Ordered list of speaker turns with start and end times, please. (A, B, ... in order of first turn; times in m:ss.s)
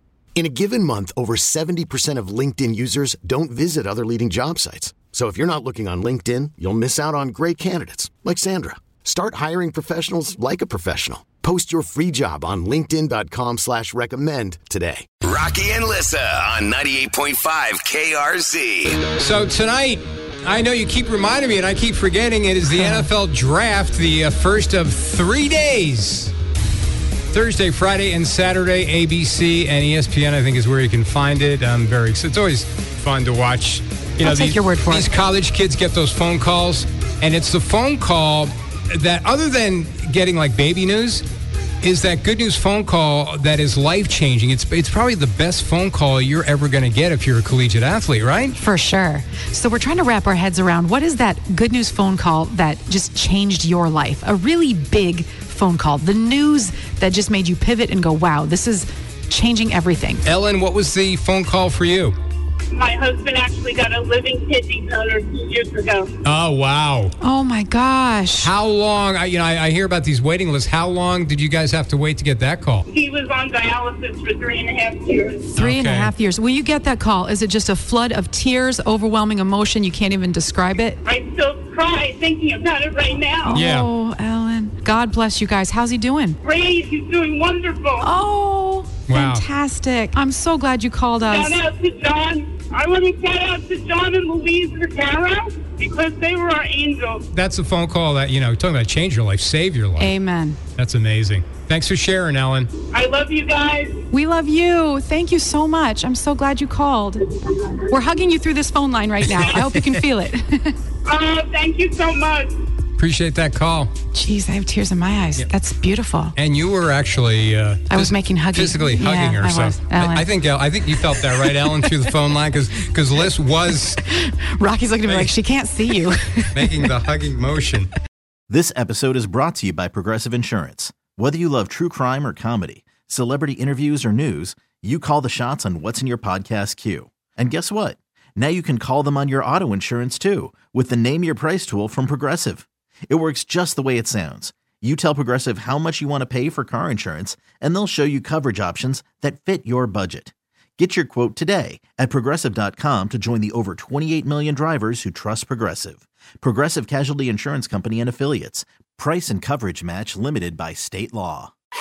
0:00.4-0:15.1 A
0:15.2-0:19.0 B
0:19.2-0:26.3 C
0:27.3-0:41.2 C
0:34.2-0:35.1 D
0:41.8-0:48.6 C
0:48.6-1:00.3 D
1:00.2-1:02.1 C
1:02.7-1:06.1 E
1:06.2-1:07.1 C
1:07.2-1:08.5 D
1:08.4-1:12.8 C
1:12.9-1:15.5 E
1:15.5-1:21.0 D
1:15.6-1:16.1 C
1:21.0-1:23.6 E
1:23.4-1:26.4 D
1:23.5-1:23.9 C
1:26.4-1:28.1 E
1:28.0-1:31.6 D
1:29.1-1:29.5 C
1:31.3-1:37.2 E
1:37.3-1:40.1 C
1:40.0-1:40.6 D
1:40.8-1:42.8 C
1:42.9-1:44.0 E
1:44.1-1:47.3 D
1:47.9-1:50.8 D
1:49.2-1:50.0 C
1:51.0-1:52.6 E
1:53.0-1:53.9 C
1:54.1-1:56.4 D
1:56.4-2:04.0 C
1:57.9-2:00.3 D
2:01.0-2:01.9 D
2:04.0-2:06.9 D
2:05.1-2:05.9 C
2:06.5-2:07.9 C
2:08.5-2:41.5 F